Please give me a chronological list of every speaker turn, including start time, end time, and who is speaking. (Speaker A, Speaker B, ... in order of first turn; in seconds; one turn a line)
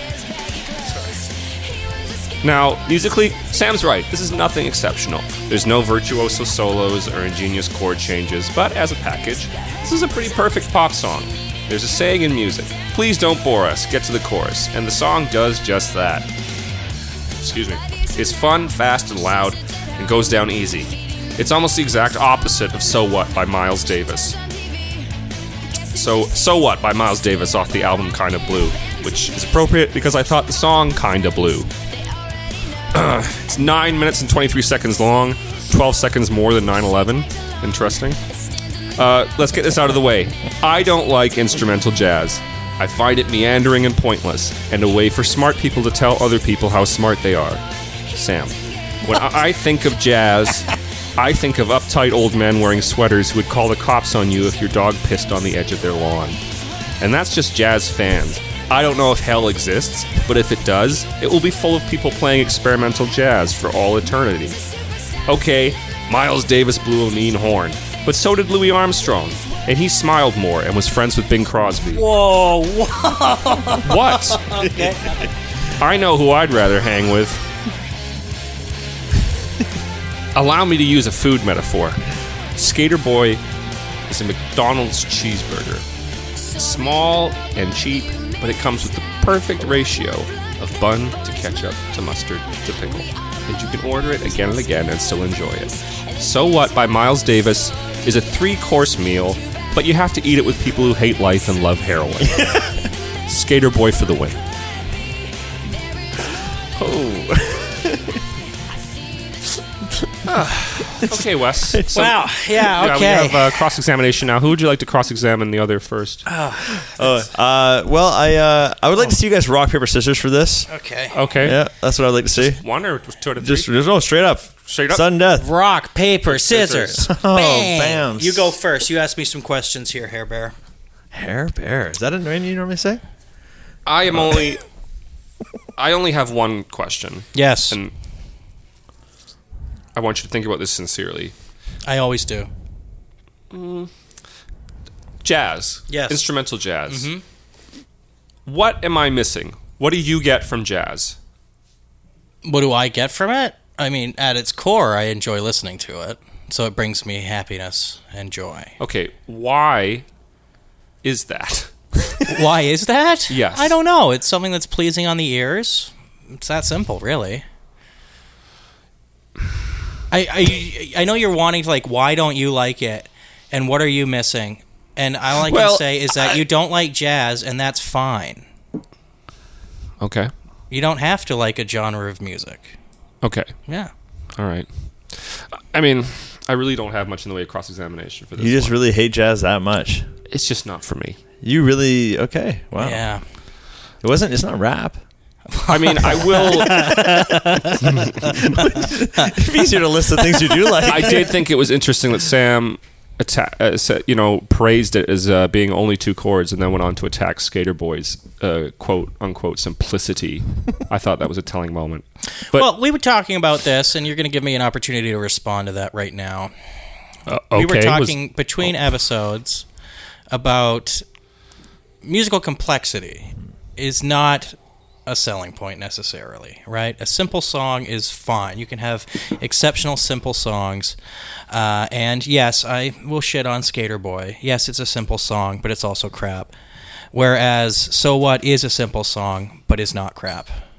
Speaker A: 2.4-16.3
Speaker A: 17.4-24.4
Speaker A: 25.9-31.7
Speaker A: 32.9-38.2
Speaker A: 39.0-56.4
Speaker A: 57.0-64.6
Speaker A: 65.3-72.0
Speaker B: 71.9-75.3
Speaker A: 73.8-74.6
Speaker C: 74.6-75.1
Speaker A: 75.8-77.4
Speaker A: 80.3-82.0
Speaker A: 82.5-83.4
Speaker A: 84.1-85.8
Speaker A: 86.5-102.6
Speaker C: 102.3-102.8
Speaker A: 103.3-104.3
Speaker C: 106.8-108.2
Speaker A: 110.3-116.2
Speaker B: 111.9-113.6
Speaker B: 116.2-117.1
Speaker C: 116.8-120.7
Speaker B: 120.7-121.2
Speaker A: 121.1-121.6
Speaker C: 121.4-122.6
Speaker A: 122.4-123.7
Speaker C: 123.4-125.5
Speaker A: 124.7-125.0
Speaker B: 125.4-130.5
Speaker A: 126.3-127.0
Speaker C: 127.0-128.5
Speaker C: 131.1-133.0
Speaker A: 133.8-134.6
Speaker A: 135.8-137.9
Speaker B: 137.3-137.8
Speaker A: 139.9-141.3
Speaker B: 141.8-142.5
Speaker A: 143.5-143.9
Speaker A: 145.2-147.1
Speaker B: 145.9-146.2
Speaker B: 146.9-147.2
Speaker A: 148.4-151.2
Speaker B: 152.4-158.7
Speaker A: 158.8-160.0
Speaker A: 161.0-162.4
Speaker B: 162.2-167.4
Speaker A: 163.3-163.7
Speaker B: 170.1-178.4
Speaker A: 175.5-176.4
Speaker A: 180.0-180.3
Speaker B: 180.7-182.8
Speaker A: 183.2-183.5
Speaker B: 183.7-183.9
Speaker A: 184.3-188.7
Speaker C: 188.4-190.0
Speaker A: 190.3-191.2
Speaker C: 191.4-193.0
Speaker B: 192.8-193.2
Speaker C: 194.0-195.0
Speaker B: 195.5-199.5
Speaker A: 195.7-198.5
Speaker C: 197.8-201.3
Speaker B: 200.2-201.1
Speaker A: 200.8-212.6
Speaker B: 212.5-216.5
Speaker A: 217.3-218.1
Speaker B: 217.5-219.7
Speaker B: 220.3-221.0
Speaker B: 222.0-230.9
Speaker B: 231.5-236.5
Speaker B: 237.1-240.5